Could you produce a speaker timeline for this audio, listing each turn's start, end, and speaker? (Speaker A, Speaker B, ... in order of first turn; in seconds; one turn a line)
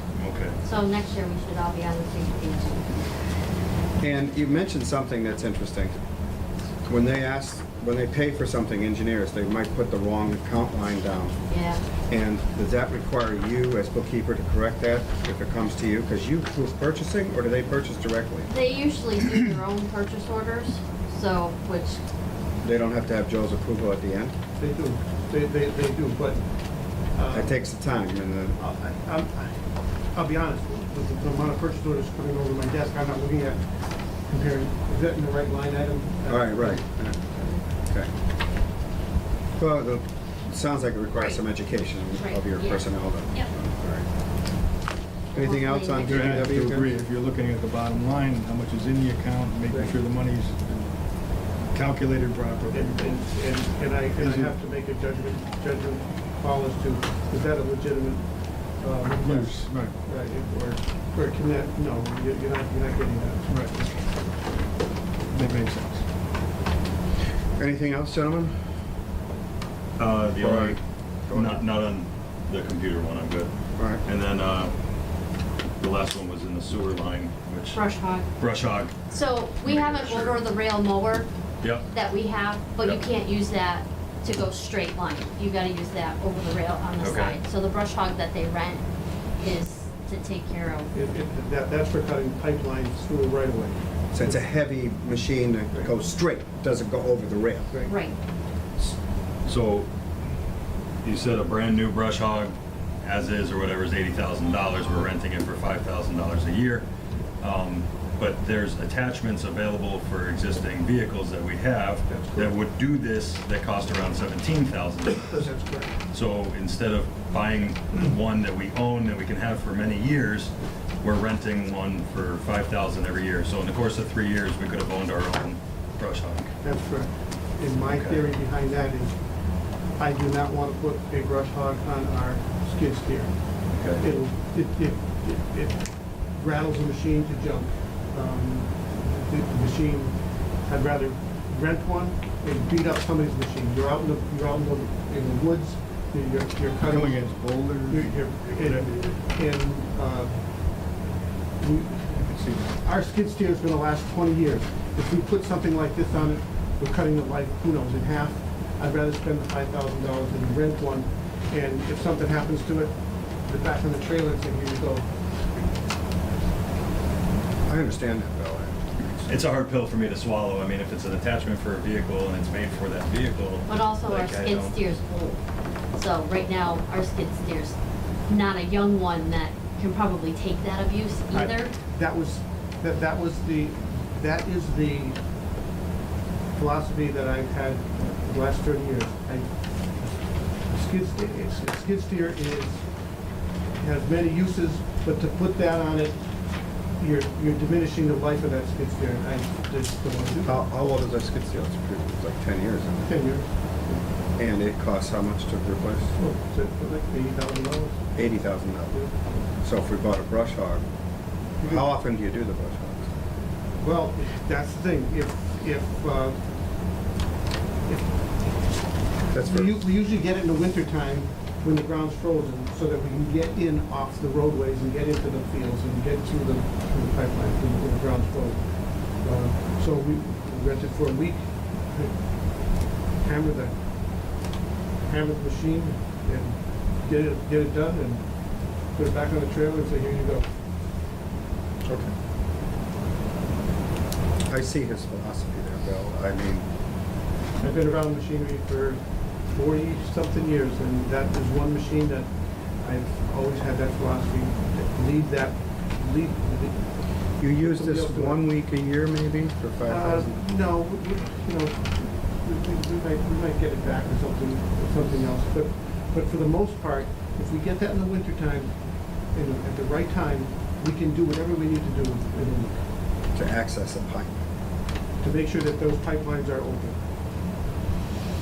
Speaker A: 0.1-0.6
Speaker B: 0.6-2.9
Speaker C: 4.0-6.0
Speaker C: 6.8-11.4
Speaker B: 11.5-11.8
Speaker C: 12.1-18.5
Speaker B: 18.5-22.0
Speaker C: 22.6-24.3
Speaker D: 24.6-26.4
Speaker D: 27.1-27.6
Speaker C: 27.3-28.6
Speaker D: 28.6-33.6
Speaker D: 34.2-36.9
Speaker C: 36.2-38.1
Speaker C: 39.6-44.1
Speaker B: 41.1-41.4
Speaker B: 42.2-43.5
Speaker B: 45.3-46.5
Speaker C: 45.3-46.9
Speaker E: 46.0-51.0
Speaker E: 51.6-53.1
Speaker D: 52.7-63.9
Speaker E: 54.1-54.5
Speaker E: 59.2-59.9
Speaker E: 63.5-63.7
Speaker E: 65.3-66.0
Speaker C: 67.6-68.6
Speaker A: 70.0-70.8
Speaker C: 70.3-71.6
Speaker A: 71.3-73.5
Speaker C: 73.8-74.0
Speaker A: 74.0-74.7
Speaker A: 75.8-77.8
Speaker B: 77.7-78.3
Speaker A: 78.4-79.0
Speaker B: 79.1-81.3
Speaker A: 79.6-80.4
Speaker A: 81.6-81.9
Speaker B: 81.8-88.8
Speaker A: 82.8-83.1
Speaker A: 87.0-87.4
Speaker B: 89.4-90.9
Speaker D: 90.9-94.3
Speaker C: 94.1-97.7
Speaker D: 97.7-98.0
Speaker B: 97.8-98.2
Speaker A: 99.4-99.9
Speaker A: 101.0-106.9
Speaker A: 107.4-115.4
Speaker D: 112.1-112.5
Speaker D: 115.3-116.0
Speaker A: 116.1-126.5
Speaker D: 126.6-129.2
Speaker A: 127.9-128.2
Speaker D: 130.0-135.8
Speaker A: 133.7-134.0
Speaker D: 136.4-147.2
Speaker E: 146.8-149.1
Speaker D: 147.9-150.4
Speaker D: 151.6-152.1
Speaker E: 152.1-152.8
Speaker D: 152.8-165.7
Speaker C: 167.7-168.8
Speaker A: 169.2-174.8
Speaker B: 173.7-175.4
Speaker B: 175.9-177.8
Speaker B: 178.3-181.7
Speaker D: 181.3-185.2
Speaker D: 186.5-189.5
Speaker D: 190.7-192.8
Speaker D: 193.8-196.2
Speaker D: 197.0-200.6
Speaker C: 200.4-203.1
Speaker D: 203.0-204.0
Speaker C: 204.4-206.1
Speaker D: 206.2-208.1
Speaker C: 208.2-209.0
Speaker C: 209.6-210.8
Speaker C: 211.6-213.1
Speaker D: 213.8-216.4
Speaker D: 217.8-218.8
Speaker C: 219.3-219.8
Speaker D: 219.4-228.6
Speaker D: 229.2-232.2
Speaker D: 233.2-233.7
Speaker D: 235.0-238.2
Speaker D: 238.9-240.4
Speaker C: 241.8-242.1
Speaker C: 244.5-246.6
Speaker D: 247.6-249.0
Speaker D: 249.5-252.3
Speaker D: 252.8-256.9
Speaker C: 257.4-260.4
Speaker D: 257.6-258.4
Speaker D: 259.8-268.7
Speaker D: 269.3-272.8
Speaker C: 273.3-274.4
Speaker D: 275.2-277.0